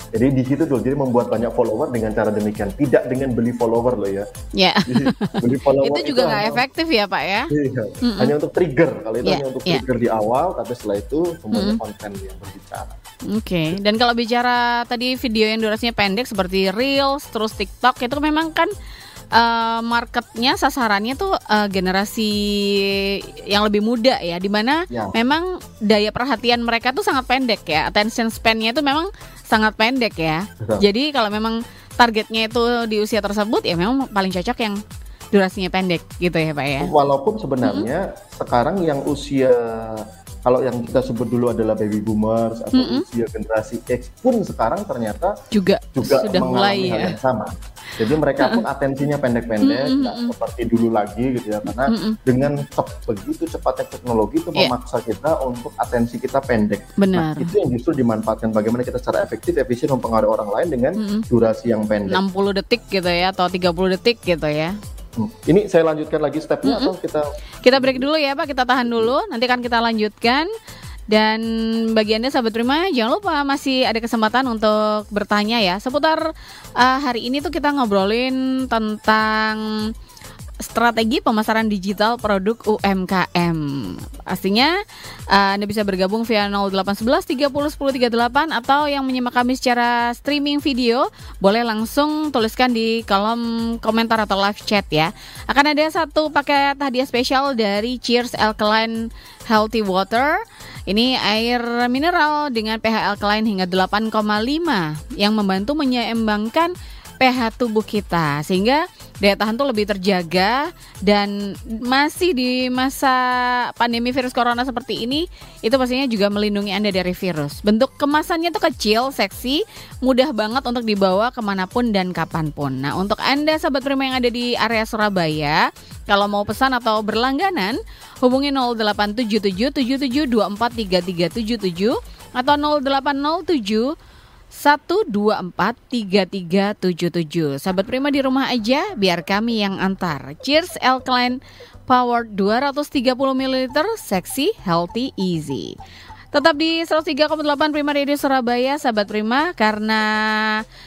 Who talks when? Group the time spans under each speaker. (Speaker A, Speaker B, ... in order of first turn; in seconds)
Speaker A: 0.1-4.3, 4.9-6.6, 7.5-13.0, 24.9-25.1, 36.8-45.4, 46.0-62.2, 65.2-68.0, 68.8-69.1
Speaker B: 4.5-8.3, 9.2-9.8, 11.5-11.8, 13.3-18.7, 19.3-34.8, 35.3-36.9, 42.7-43.0, 45.5-47.1, 49.6-50.3, 51.9-52.2, 57.0-57.5, 61.0-61.2, 62.1-64.7, 66.6-66.9, 67.6-70.5, 71.1-76.2, 76.8-79.9, 80.6-84.7, 85.3-133.9, 134.5-145.7, 146.3-150.6